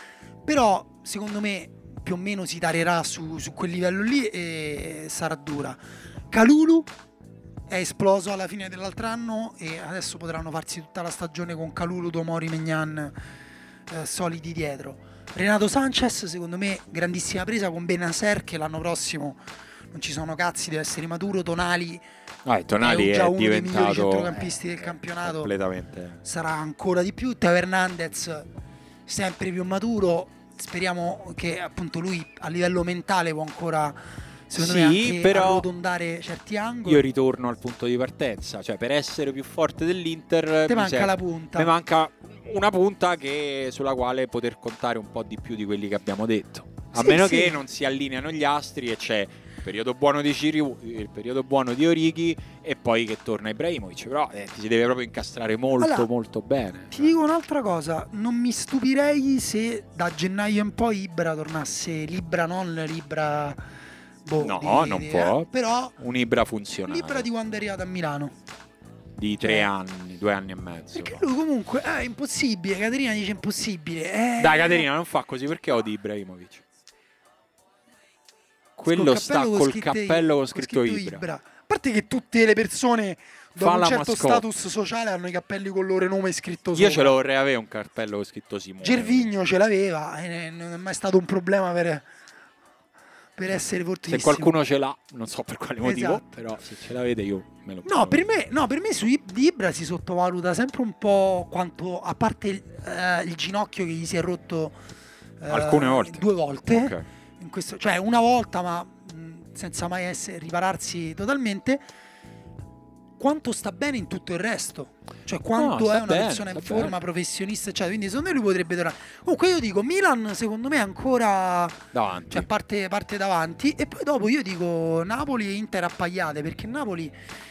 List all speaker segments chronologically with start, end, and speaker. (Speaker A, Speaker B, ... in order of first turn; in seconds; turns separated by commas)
Speaker A: 0.5-5.8, Speaker A: 6.3-6.9, Speaker A: 7.7-13.1, Speaker A: 13.9-19.4, Speaker A: 19.9-22.0, Speaker B: 22.4-26.2, Speaker A: 22.8-25.5, Speaker A: 26.2-28.5, Speaker A: 29.1-34.0, Speaker A: 34.5-37.1, Speaker B: 34.5-35.7, Speaker B: 36.9-57.2, Speaker A: 40.7-41.7, Speaker A: 47.0-47.6, Speaker A: 55.8-56.1, Speaker A: 56.9-63.6, Speaker A: 64.2-66.0, Speaker B: 64.4-67.3, Speaker A: 66.9-68.3, Speaker B: 69.2-71.2, Speaker A: 69.4-69.7, Speaker A: 71.0-74.9, Speaker B: 74.4-76.6, Speaker B: 78.8-81.2, Speaker A: 78.9-87.2, Speaker B: 83.6-84.5, Speaker B: 86.7-89.3, Speaker A: 88.8-92.1, Speaker A: 93.4-94.5, Speaker B: 94.1-98.3, Speaker A: 95.8-96.2, Speaker A: 97.8-104.8, Speaker A: 105.4-111.8, Speaker B: 105.5-107.0, Speaker A: 113.2-127.2, Speaker B: 115.6-117.0, Speaker B: 121.9-122.5